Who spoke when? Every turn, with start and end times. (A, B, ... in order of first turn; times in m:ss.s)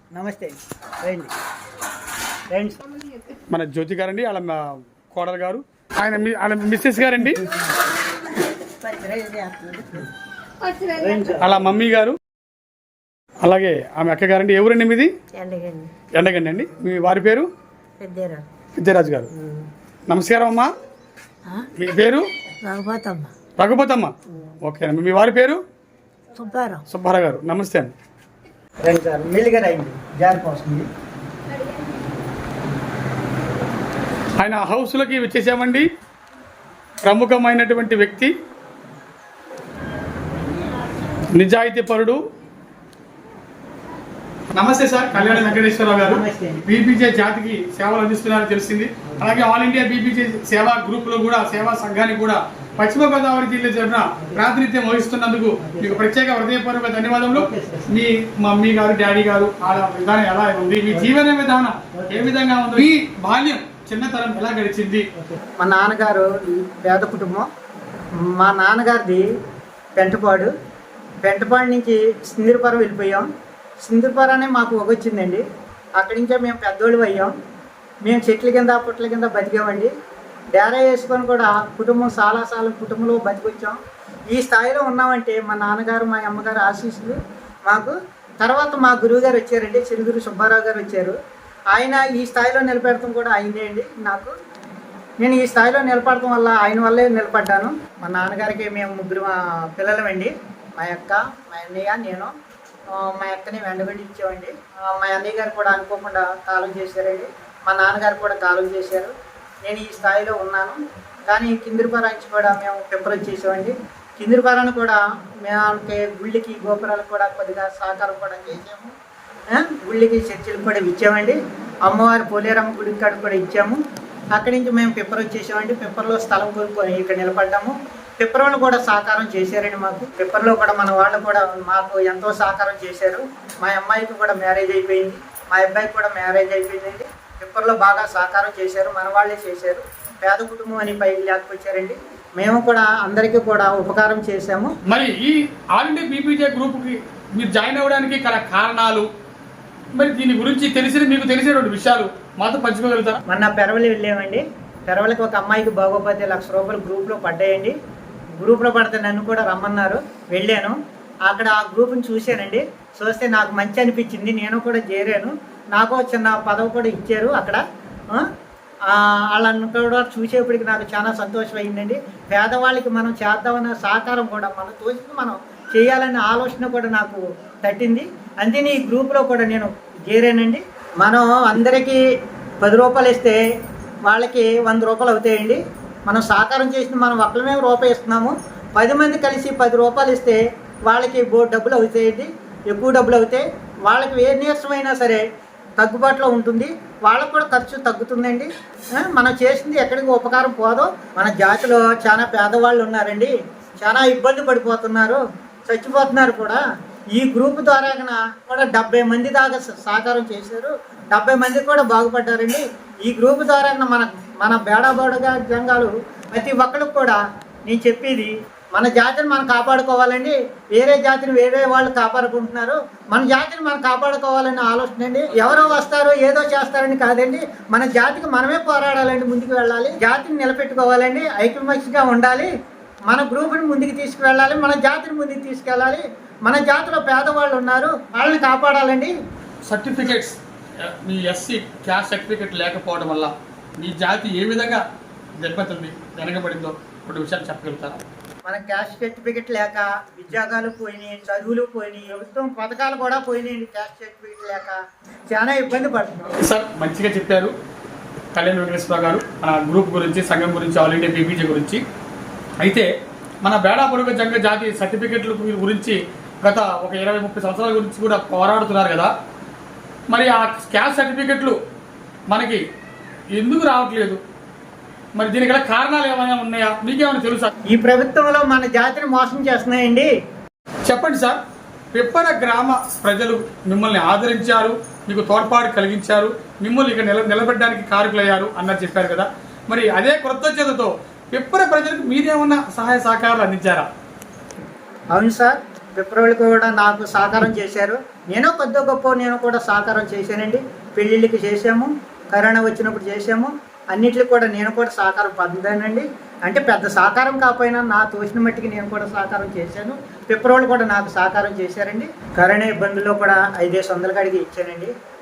0:00.1-0:01.3 A
0:02.5-0:02.8 A
0:03.5-0:07.5 B
0:08.6-0:10.1 C
0:10.6-0:11.2 C
0:11.0-0:11.4 A
0:11.4-0:12.2 B
0:13.4-0:15.1 B
0:15.3-0:15.9 C
0:16.1-0:17.5 B
0:18.0-0:18.4 C
0:18.8-0:19.3 B
0:20.1-0:20.7 B
0:21.8-0:22.3 B
0:22.6-0:23.3 C
0:23.6-0:25.6 B
0:26.3-0:26.8 C
0:26.9-0:27.9 B
0:28.8-0:30.9 A
0:34.4-0:35.9 B
0:37.0-0:38.3 B
0:41.3-0:42.2 B
0:44.5-1:05.0 B
0:45.1-0:46.6 A
0:55.6-0:56.0 A
0:57.3-0:57.9 A
1:02.0-1:02.3 A
1:05.2-1:07.5 A
1:08.3-1:09.2 A
1:10.0-1:10.5 A
1:11.2-1:13.3 A
1:13.8-1:15.4 A
1:16.0-1:17.3 A
1:18.0-1:19.9 A
1:20.5-1:23.8 A
1:24.3-1:31.1 A
1:31.7-1:34.4 A
1:35.2-1:42.3 A
1:42.9-1:49.1 A
1:49.6-1:58.9 A
1:59.5-2:03.8 A
2:04.4-2:24.7 A
2:24.8-2:29.1 B
2:29.9-2:33.2 B
2:33.3-2:37.7 A
2:38.4-2:48.2 A
2:48.9-3:02.0 A
3:02.6-3:03.4 A
3:04.0-3:15.2 A
3:15.8-3:26.6 A
3:27.1-3:52.5 A
3:53.1-3:59.1 A
3:59.6-4:04.8 B
4:05.4-4:08.0 B
4:08.4-4:14.8 A
4:15.3-4:16.3 A
4:16.4-4:17.5 B
4:18.3-4:21.8 B
4:22.6-4:22.9 B
4:23.4-4:29.1 B
4:30.1-4:31.6 B
4:32.3-4:32.6 B
4:33.4-4:34.2 B
4:35.2-4:37.5 B
4:37.7-4:40.1 A
4:40.8-4:41.4 B
4:41.9-4:53.9 B
4:55.1-5:14.9 A